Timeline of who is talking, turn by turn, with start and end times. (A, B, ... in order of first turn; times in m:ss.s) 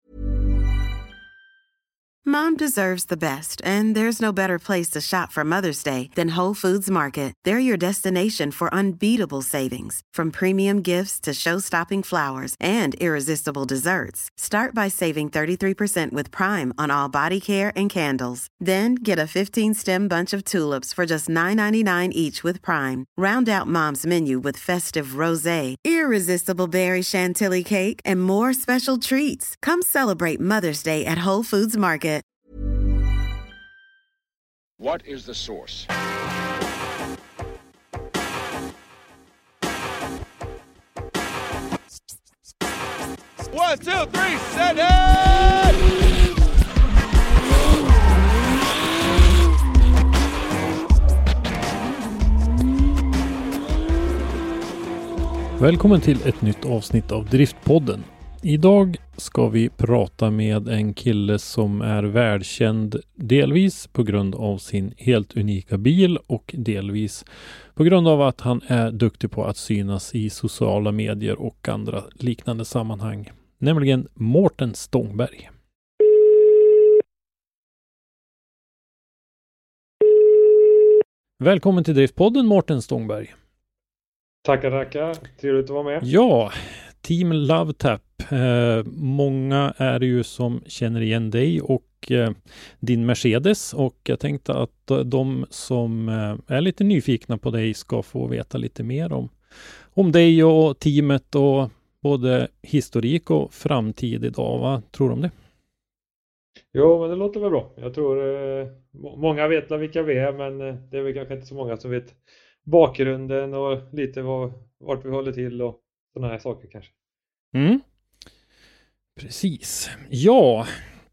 0:02.2-0:32.2 A
0:34.8-0:35.9 B
0:43.5-0:45.4 B
0:55.6-1:15.5 C
1:21.4-1:23.3 C
1:24.4-1:26.1 D
1:26.0-1:39.3 C
1:39.9-1:45.3 C
1:46.7-1:56.9 D
1:57.5-1:57.8 C
1:59.2-2:00.8 C